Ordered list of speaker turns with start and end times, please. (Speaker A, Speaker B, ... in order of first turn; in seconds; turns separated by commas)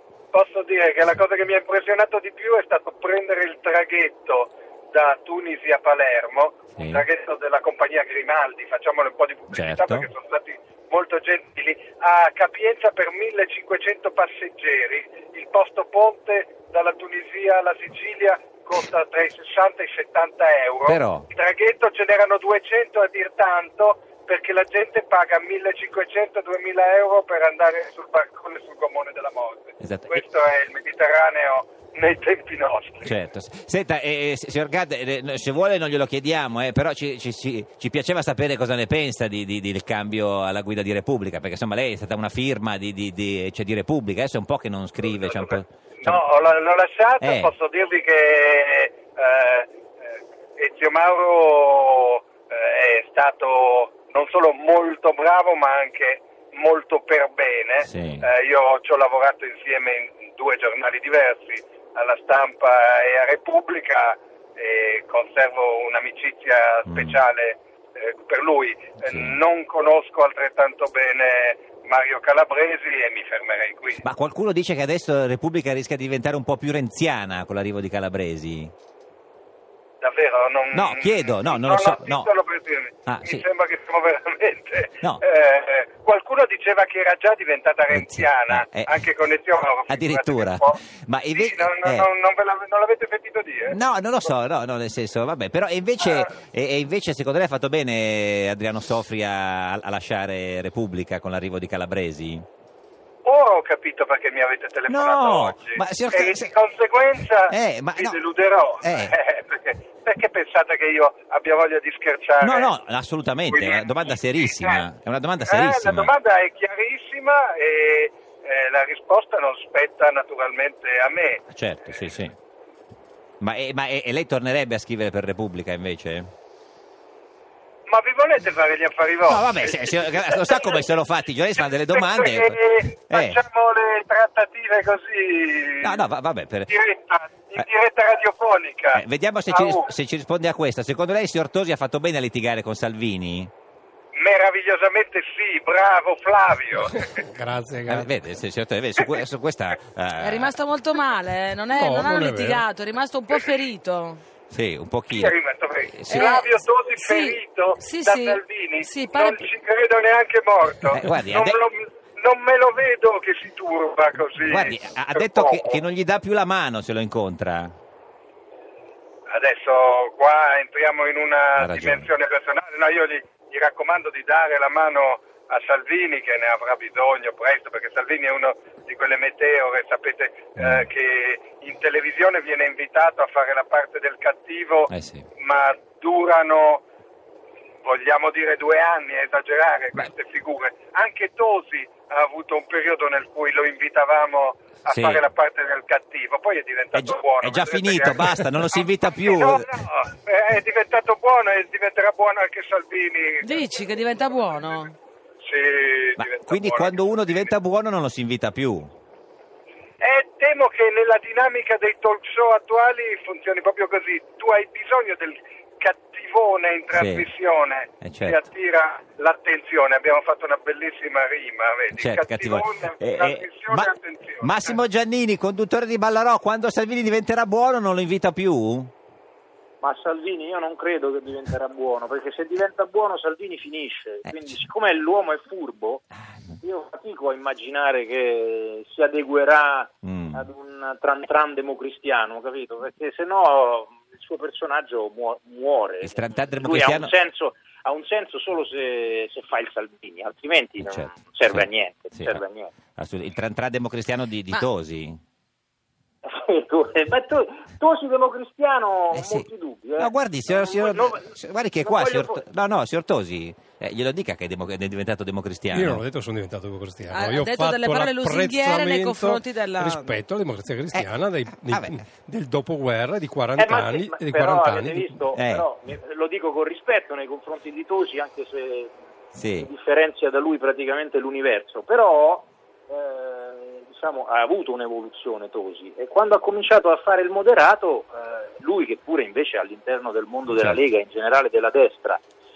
Speaker A: 0.3-33.1, Speaker B: 6.7-7.0, Speaker B: 9.5-10.1, Speaker B: 20.9-21.3, Speaker B: 29.8-30.2, Speaker B: 33.0-46.2, Speaker A: 45.3-49.7, Speaker B: 47.2-47.5, Speaker A: 50.6-74.0, Speaker B: 57.8-58.3, Speaker B: 66.8-67.2, Speaker B: 69.0-69.4, Speaker B: 74.0-78.7, Speaker A: 80.0-90.8, Speaker B: 80.7-82.3, Speaker B: 83.0-83.4, Speaker B: 87.9-89.0, Speaker B: 89.9-92.1, Speaker A: 91.3-93.8, Speaker B: 93.7-102.4, Speaker A: 103.2-112.7, Speaker B: 104.9-106.5, Speaker B: 107.5-108.2, Speaker B: 108.8-109.1, Speaker B: 112.4-116.1, Speaker A: 113.5-114.8, Speaker A: 115.5-121.4, Speaker B: 121.5-122.3, Speaker B: 123.4-126.3, Speaker A: 127.9-130.8, Speaker B: 129.2-133.4, Speaker A: 131.6-136.0, Speaker B: 135.8-136.7, Speaker A: 136.7-139.8, Speaker B: 138.9-143.5, Speaker A: 144.1-147.2, Speaker C: 146.9-148.1, Speaker B: 147.9-150.5, Speaker D: 150.2-154.2, Speaker C: 151.7-152.6, Speaker B: 154.5-155.3, Speaker A: 155.1-165.8, Speaker B: 155.9-156.2, Speaker D: 156.1-159.4, Speaker B: 160.9-161.6, Speaker B: 164.4-167.7, Speaker A: 169.3-186.8, Speaker B: 171.6-172.1, Speaker B: 180.6-180.9, Speaker B: 184.9-185.2, Speaker A: 187.8-203.6, Speaker B: 194.9-195.2, Speaker B: 196.9-199.7, Speaker D: 203.4-204.9, Speaker A: 205.4-206.9, Speaker B: 206.2-208.9, Speaker A: 210.0-224.7, Speaker B: 216.9-217.3, Speaker B: 218.0-218.4, Speaker B: 221.9-228.9, Speaker E: 229.8-236.0, Speaker E: 236.6-252.7, Speaker B: 240.0-240.4, Speaker B: 246.0-247.1, Speaker B: 250.8-252.4, Speaker B: 252.9-255.2, Speaker E: 256.2-262.4, Speaker B: 259.1-266.0, Speaker C: 265.7-275.1, Speaker D: 267.1-270.2, Speaker B: 271.6-272.0, Speaker E: 273.6-278.9, Speaker B: 275.3-275.6, Speaker B: 279.3-279.7, Speaker E: 279.5-292.2, Speaker B: 290.5-290.8